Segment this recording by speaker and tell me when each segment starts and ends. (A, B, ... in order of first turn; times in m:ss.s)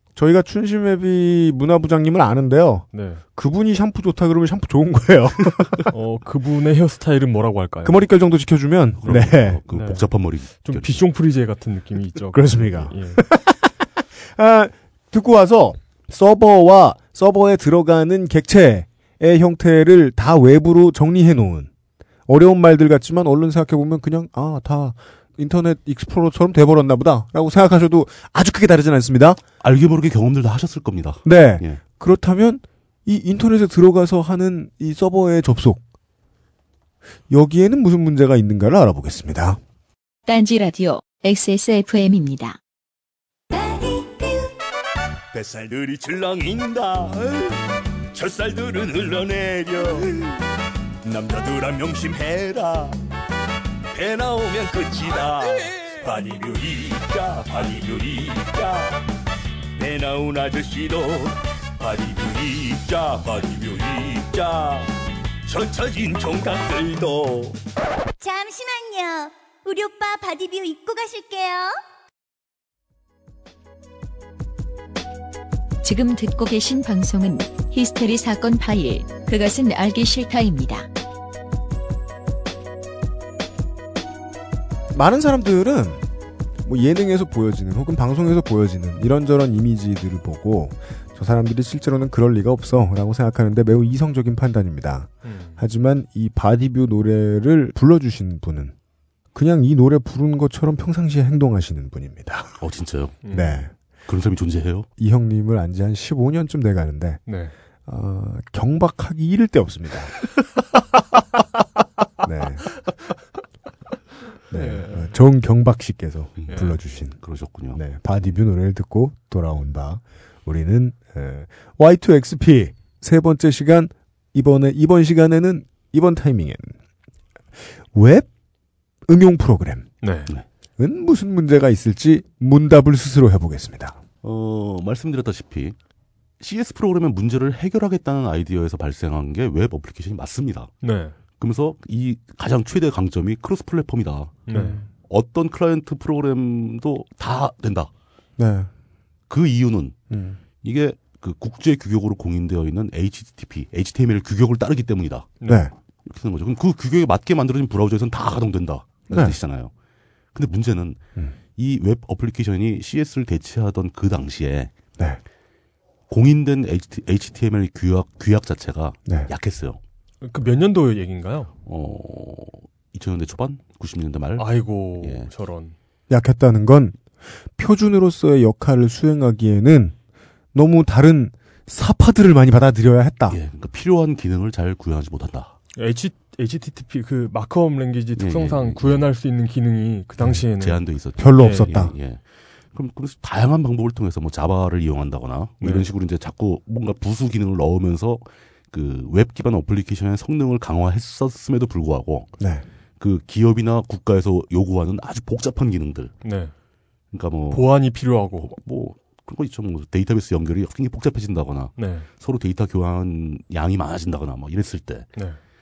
0:00.2-0:05.8 A
0:02.9-0:03.2 B
0:05.9-0:08.0 B
0:07.8-0:09.6 A
0:09.0-0:11.0 C
0:09.7-0:10.0 B
0:10.6-0:13.2 B
0:12.3-0:21.7 A
0:22.3-0:29.4 A
0:29.6-0:31.8 C
0:31.2-0:35.8 A
0:37.3-0:39.6 A
0:40.3-0:42.6 D
0:45.3-0:47.6 E
0:48.1-0:50.3 E
0:51.0-0:53.0 E
0:53.9-0:59.0 E
0:59.8-1:04.9 E
1:05.4-1:07.6 E
1:08.2-1:11.8 F
1:15.8-1:20.9 D
1:24.9-1:26.0 A
1:26.6-1:38.7 A
1:35.2-1:35.6 B
1:39.3-1:42.6 A
1:42.6-1:43.2 C
1:43.2-1:43.6 B
1:43.3-1:43.7 A
1:44.1-1:44.9 C
1:45.0-1:47.2 A
1:47.3-1:47.5 B
1:47.8-1:50.1 A
1:52.2-1:52.6 A
1:54.5-1:57.2 A
1:54.5-1:55.1 B
1:56.5-1:56.7 B
1:57.2-1:57.8 C
1:57.7-2:06.8 A
2:07.9-2:08.3 A
2:09.1-2:09.9 A
2:10.0-2:10.3 B
2:10.8-2:14.0 A
2:14.2-2:15.8 C
2:16.4-2:20.7 C
2:20.8-2:21.1 B
2:21.4-2:24.4 C
2:24.5-2:24.8 B
2:24.5-2:24.8 A
2:25.1-2:27.9 C
2:28.4-2:28.7 A
2:29.3-2:29.9 C
2:30.1-2:30.4 A
2:30.6-2:35.4 C
2:35.4-2:35.6 B
2:35.4-2:35.7 A
2:36.0-2:39.7 C
2:39.1-2:39.4 A
2:40.3-2:41.0 C
2:41.6-2:44.7 C
2:46.1-2:49.8 C
2:50.2-2:51.5 B
2:51.6-2:55.3 C
2:54.4-2:55.7 B
2:56.1-2:57.0 A
2:57.6-2:59.9 A
3:00.5-3:03.4 A
3:03.3-3:05.5 C
3:05.8-3:10.8 B
3:08.2-3:09.0 C
3:10.2-3:12.2 C
3:11.2-3:11.9 A
3:11.4-3:11.7 B
3:12.7-3:22.3 C
3:15.6-3:15.9 B
3:22.4-3:22.6 A
3:23.0-3:26.1 C
3:26.2-3:26.5 B
3:27.1-3:27.7 C
3:27.5-3:28.5 B
3:28.4-3:35.1 C
3:31.8-3:32.1 B